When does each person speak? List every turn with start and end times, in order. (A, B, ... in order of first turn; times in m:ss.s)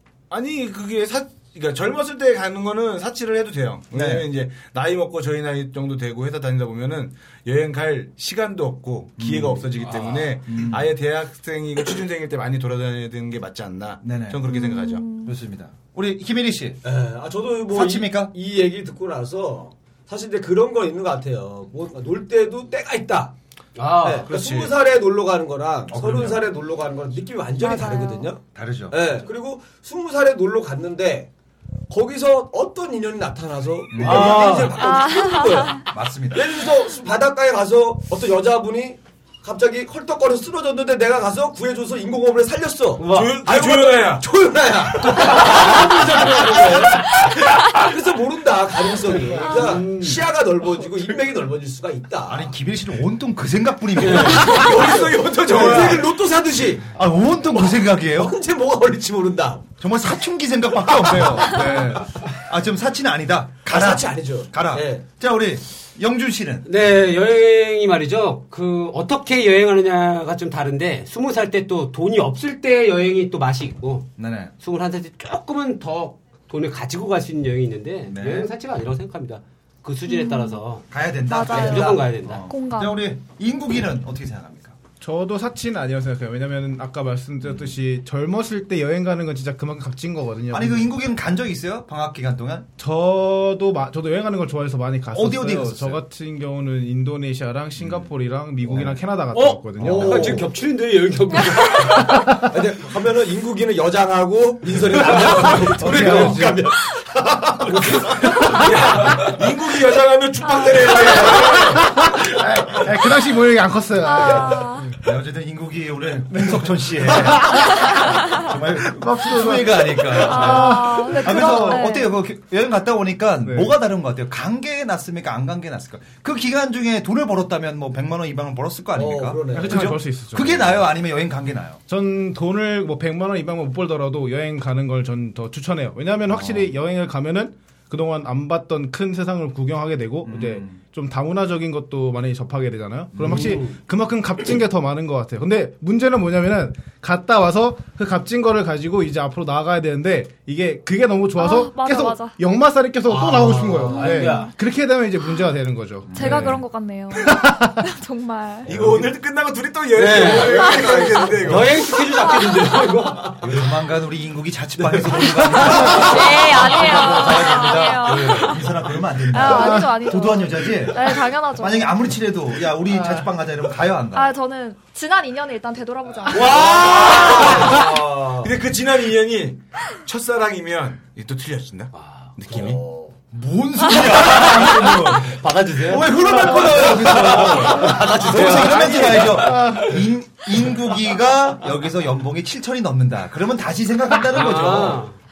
0:00.3-0:15.1 A
0:03.9-0:04.3 B
0:09.2-0:09.7 B
0:09.8-0:10.2 C
0:10.4-0:10.9 B
0:14.0-0:14.6 B
0:14.4-0:15.4 D
0:15.2-0:16.8 B
0:16.8-0:23.3 E
0:17.7-0:18.3 B
0:23.8-0:24.3 C
0:24.0-0:31.3 E
0:24.3-0:24.7 A
0:25.9-0:26.5 B
0:27.6-0:28.3 D
0:28.5-0:29.1 B
0:31.9-0:52.5 E
0:33.9-0:34.6 B
0:34.0-0:34.8 C
0:34.7-0:35.8 D
0:35.9-0:36.6 B
0:43.0-0:43.4 C
0:43.1-0:44.2 A
0:45.1-0:47.1 C
0:49.4-0:50.3 C
0:49.4-0:49.7 D
0:52.3-0:54.7 B
0:54.0-0:56.9 E
0:54.0-0:54.8 C
0:54.8-0:56.0 A
0:57.0-0:58.4 B
0:57.6-0:59.7 E
0:59.8-1:06.7 B
1:03.7-1:05.0 E
1:06.6-1:20.9 C
1:14.2-1:14.5 B
1:18.1-1:18.5 B
1:20.1-1:20.6 D
1:20.9-1:24.8 B
1:21.3-1:23.1 D
1:21.4-1:22.5 C
1:25.0-1:30.9 F
1:27.4-1:27.7 B
1:30.5-1:32.7 B
1:32.8-1:40.3 F
1:35.1-1:36.0 B
1:37.8-1:38.1 B
1:38.6-1:39.0 B
1:39.3-1:42.3 C
1:39.8-1:40.5 E
1:39.9-1:40.2 B
1:42.5-1:49.2 E
1:45.0-1:46.4 C
1:45.8-1:46.5 B
1:45.9-1:46.6 F
1:48.6-1:51.9 A
1:50.9-1:51.8 E
1:51.8-1:55.0 F
1:54.0-1:54.9 D
1:55.0-2:11.8 B
1:56.4-1:58.0 F
1:58.8-2:01.8 F
2:00.2-2:02.2 D
2:03.4-2:03.7 F
2:09.0-2:10.0 E
2:09.5-2:10.9 F
2:11.9-2:36.6 F
2:16.3-2:16.7 B
2:20.2-2:20.8 B
2:23.1-2:23.6 B
2:23.2-2:23.8 C
2:31.4-2:32.4 D
2:33.0-2:34.6 C
2:33.9-2:34.5 D
2:35.2-2:35.5 D
2:36.1-2:36.6 B
2:36.1-2:38.7 D
2:37.3-2:37.8 F
2:38.7-2:39.1 B
2:38.7-2:41.8 A
2:40.0-2:43.7 C
2:40.2-2:41.6 E
2:40.7-2:41.1 D
2:42.2-2:42.7 D
2:43.4-2:54.4 B
2:44.9-2:45.2 C
2:45.8-2:48.7 D
2:48.2-2:48.5 C
2:49.3-2:51.9 D
2:54.1-2:56.6 D
2:56.3-2:58.5 E
2:56.3-3:02.8 A
3:01.9-3:02.3 C
3:02.5-3:03.2 E
3:03.3-3:15.0 B
3:04.6-3:09.8 C
3:06.5-3:09.2 E
3:14.2-3:15.2 C